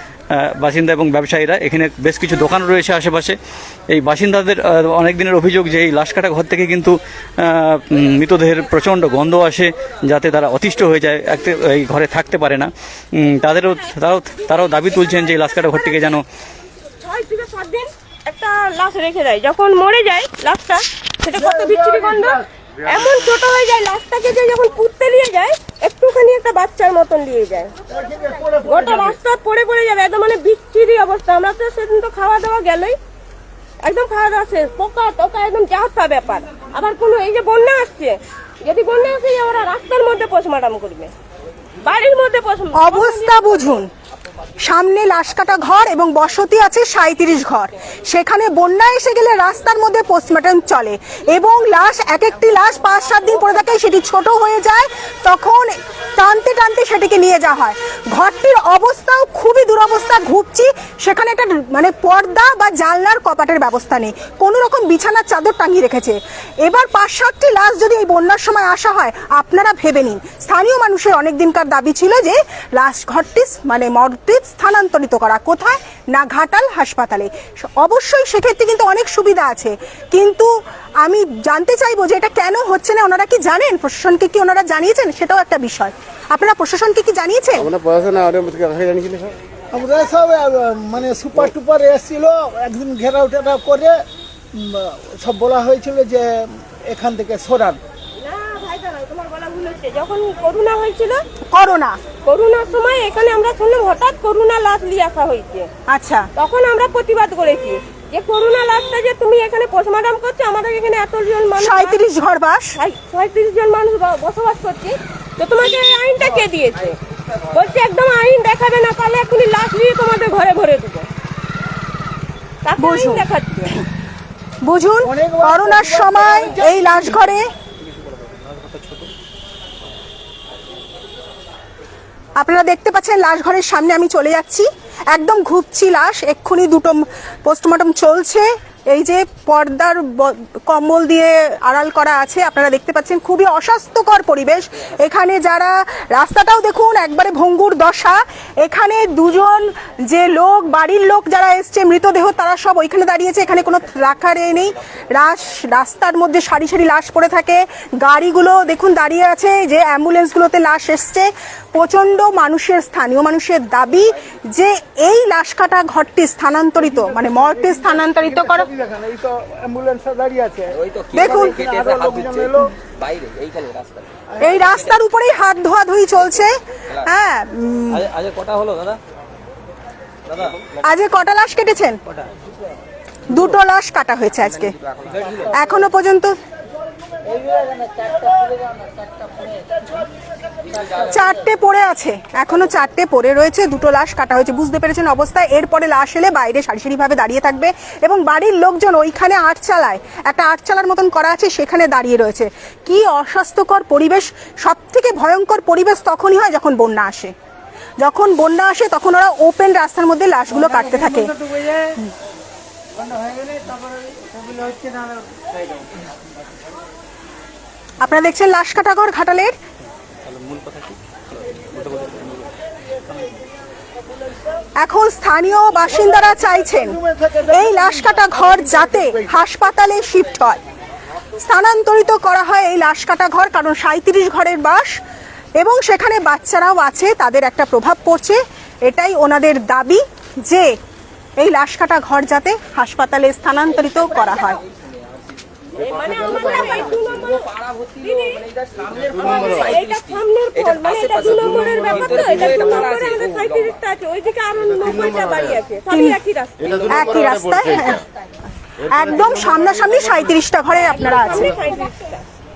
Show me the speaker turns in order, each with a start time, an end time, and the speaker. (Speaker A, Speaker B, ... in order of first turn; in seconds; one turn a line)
Speaker A: 0.3-3.4
Speaker A: 3.9-16.2
Speaker B: 17.0-27.7
Speaker C: 21.4-22.4
Speaker C: 27.9-29.2
Speaker B: 28.6-33.0
Speaker B: 33.8-41.1
Speaker B: 41.8-43.6
Speaker D: 42.8-43.9
Speaker D: 44.6-80.5
Speaker D: 81.0-87.7
Speaker E: 87.6-89.4
Speaker C: 89.7-94.0
Speaker C: 94.5-97.8
Speaker B: 98.2-101.2
Speaker D: 101.5-102.0
Speaker B: 102.3-105.7
Speaker D: 105.9-106.3
Speaker B: 106.4-112.0
Speaker D: 111.6-112.7
Speaker B: 112.8-117.0
Speaker B: 117.5-121.1
Speaker B: 122.6-123.8
Speaker D: 122.8-123.2
Speaker D: 124.6-127.5
Speaker C: 125.0-127.2
Speaker A: 128.1-129.1
Speaker D: 132.4-168.7
Speaker C: 166.8-172.8
Speaker F: 170.8-174.1
Speaker D: 171.1-171.6
Speaker C: 174.3-174.6
Speaker D: 174.4-178.1
Speaker A: 177.9-179.0
Speaker D: 180.8-182.0
Speaker D: 183.3-184.8
Speaker A: 185.1-185.5
Speaker D: 185.5-186.3
Speaker C: 187.3-191.0
Speaker D: 191.0-207.3
Speaker D: 208.0-211.4
Speaker C: 214.6-214.9
Speaker D: 218.0-219.6
Speaker A: 220.2-222.5
Speaker D: 224.8-227.0
Speaker C: 226.1-229.4
Speaker D: 227.5-230.6
Speaker D: 231.4-235.0
Speaker D: 235.6-240.7
Speaker D: 241.4-244.6
Speaker B: 245.8-248.4
Speaker E: 245.8-247.2
Speaker F: 248.5-250.0
Speaker E: 248.9-249.7
Speaker B: 249.3-256.9
Speaker F: 250.6-253.7
Speaker E: 251.3-252.8
Speaker E: 254.7-255.6
Speaker D: 255.9-256.2
Speaker E: 256.6-258.0
Speaker F: 256.7-257.1
Speaker D: 256.9-258.0
Speaker E: 258.9-259.9
Speaker D: 258.9-261.6
Speaker B: 260.7-262.2